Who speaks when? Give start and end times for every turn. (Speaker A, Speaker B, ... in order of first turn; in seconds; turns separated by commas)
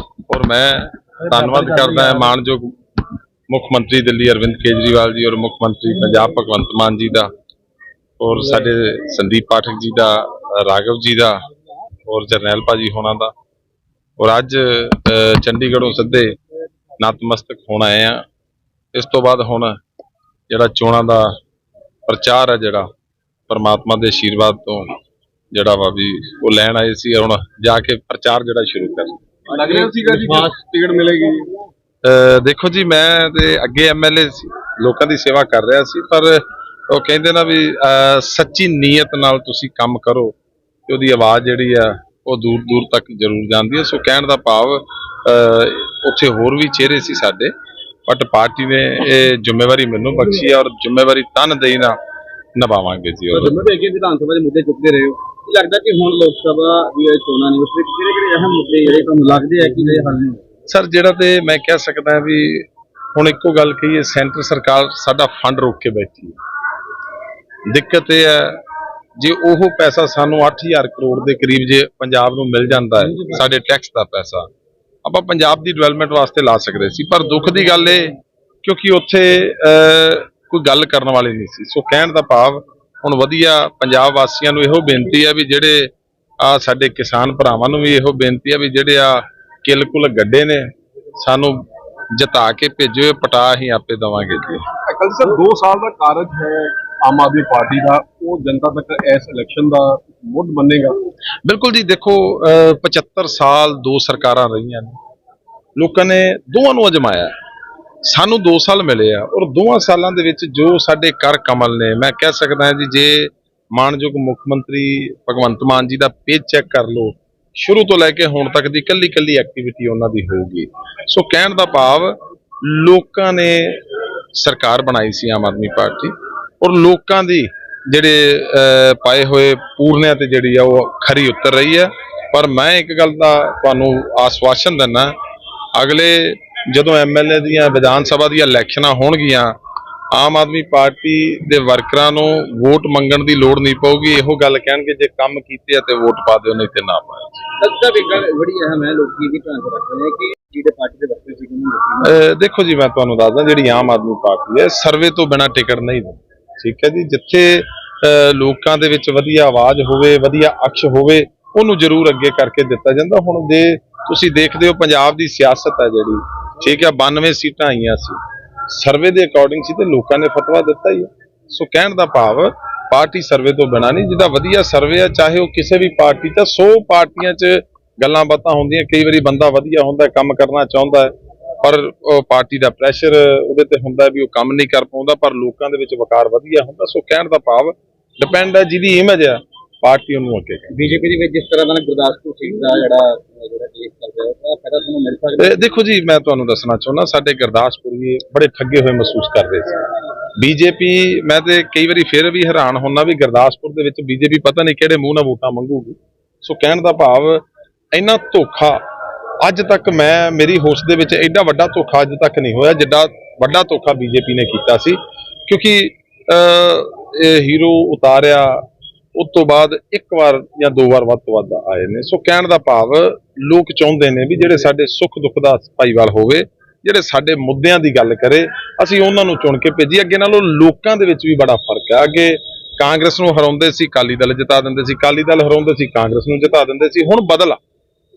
Speaker A: 0.3-2.8, Speaker A: 3.5-7.3, Speaker A: 8.2-11.4, Speaker A: 12.1-13.3, Speaker A: 14.2-16.4, Speaker A: 17.0-18.2, Speaker A: 18.9-19.8, Speaker A: 20.5-21.4, Speaker A: 22.1-22.9, Speaker A: 23.5-25.0, Speaker A: 25.5-29.2, Speaker B: 29.5-30.5, Speaker C: 29.5-31.5, Speaker A: 32.0-40.4, Speaker A: 40.9-47.5, Speaker A: 48.1-52.0, Speaker A: 52.6-53.6, Speaker B: 53.3-60.4, Speaker A: 60.7-66.4, Speaker A: 67.7-68.6, Speaker A: 69.2-74.5, Speaker A: 75.0-85.9, Speaker A: 86.4-94.6, Speaker C: 94.7-101.0, Speaker A: 101.5-105.0, Speaker A: 105.8-107.3, Speaker A: 108.0-135.1, Speaker A: 135.8-139.5, Speaker A: 140.1-147.5, Speaker B: 147.6-152.2, Speaker A: 152.0-190.8, Speaker B: 190.7-195.7, Speaker A: 195.4-199.8, Speaker A: 200.4-208.8, Speaker A: 209.4-237.6